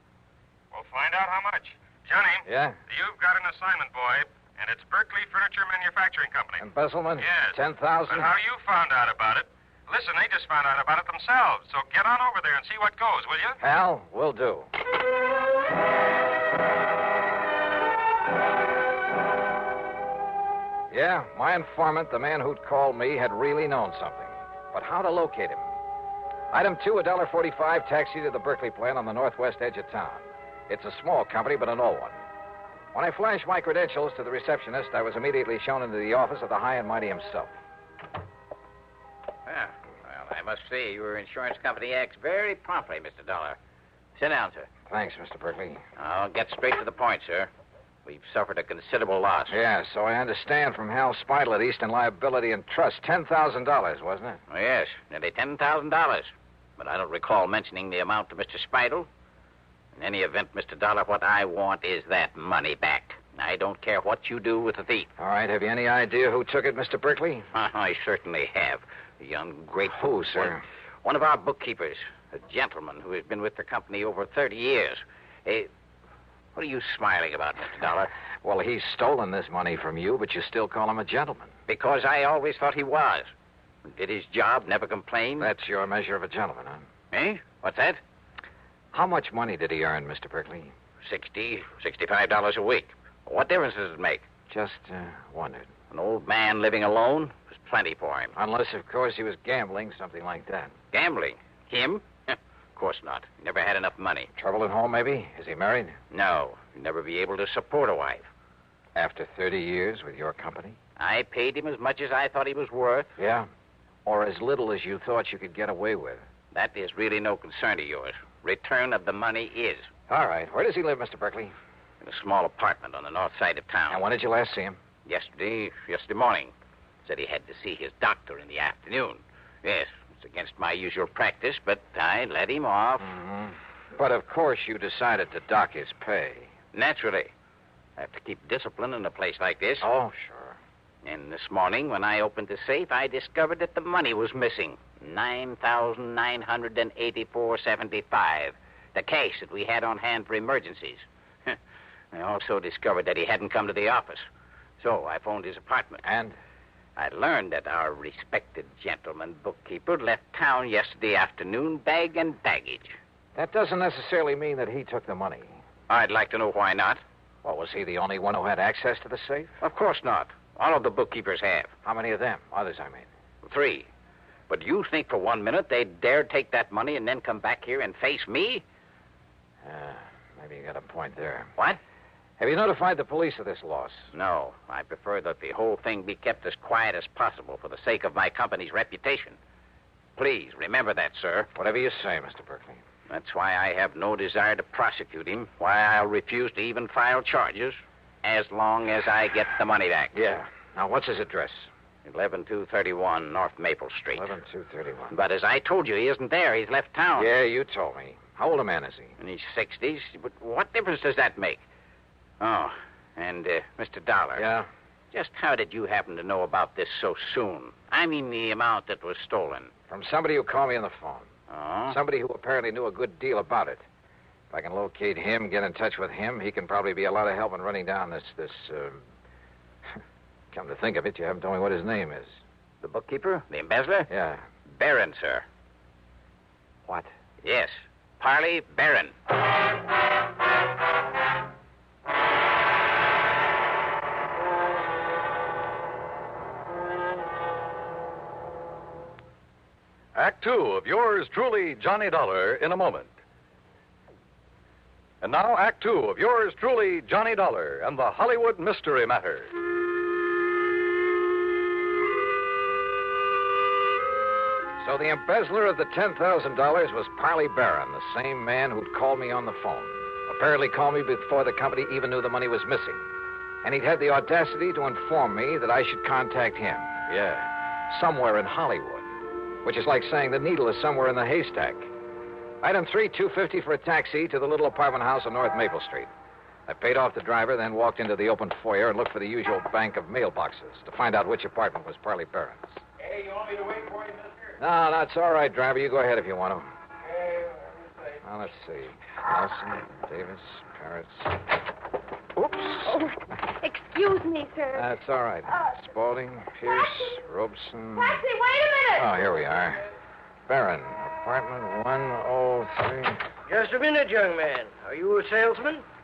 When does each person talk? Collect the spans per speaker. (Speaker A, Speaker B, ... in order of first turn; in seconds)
Speaker A: 0.7-6.6, 7.2-13.6
Speaker B: 2.5-2.8, 6.6-8.3, 13.6-14.7, 20.9-25.7, 26.5-32.2, 32.9-37.5, 44.9-45.8, 49.5-54.4, 65.2-67.5, 69.9-70.6, 78.4-81.5, 85.4-86.8, 88.9-90.7, 94.5-95.7, 98.3-100.7, 104.3-106.0, 108.9-110.8, 113.2-113.5, 114.0-116.2, 120.1-121.5, 123.9-124.8, 133.0-136.5, 139.8-140.6, 156.0-156.3, 163.3-165.5, 167.4-169.6, 171.8-173.1, 179.6-181.5, 182.4-184.1, 191.5-192.8, 200.1-201.7, 204.1-205.1, 207.1-209.2, 214.3-214.7, 219.9-221.3, 221.9-223.8, 224.5-229.0, 230.5-232.3, 234.1-234.4, 264.8-273.0, 273.6-279.1, 279.6-281.9, 282.6-286.1, 286.7-292.8, 294.6-296.7, 298.2-301.3, 302.3-303.0, 304.7-308.2, 308.9-309.8, 310.5-313.2
Speaker C: 39.5-43.6, 44.1-44.7, 46.0-47.5, 48.0-49.5, 54.5-59.1, 60.0-65.1, 67.5-75.7, 76.5-78.1, 81.7-83.3, 83.8-85.5, 87.1-88.0, 91.0-94.2, 95.9-98.3, 100.9-104.3, 106.1-108.3, 111.0-113.1, 116.5-119.9, 122.0-124.0, 125.0-126.5, 127.0-133.1, 136.7-137.3, 138.0-139.9, 141.0-151.6, 152.1-154.2, 154.8-156.0, 157.0-163.0, 165.9-167.0, 169.6-171.7, 173.4-173.9, 174.5-178.6, 184.1-189.4, 190.2-191.5, 193.1-200.2, 202.1-204.3, 205.1-207.3, 209.2-211.6, 212.4-214.4, 215.1-219.7, 221.5-222.0, 232.8-234.1, 234.7-235.4, 237.4-239.1
Speaker D: 250.1-253.1, 255.2-259.5
Speaker E: 302.8-304.9, 308.0-309.1
Speaker F: 313.4-315.8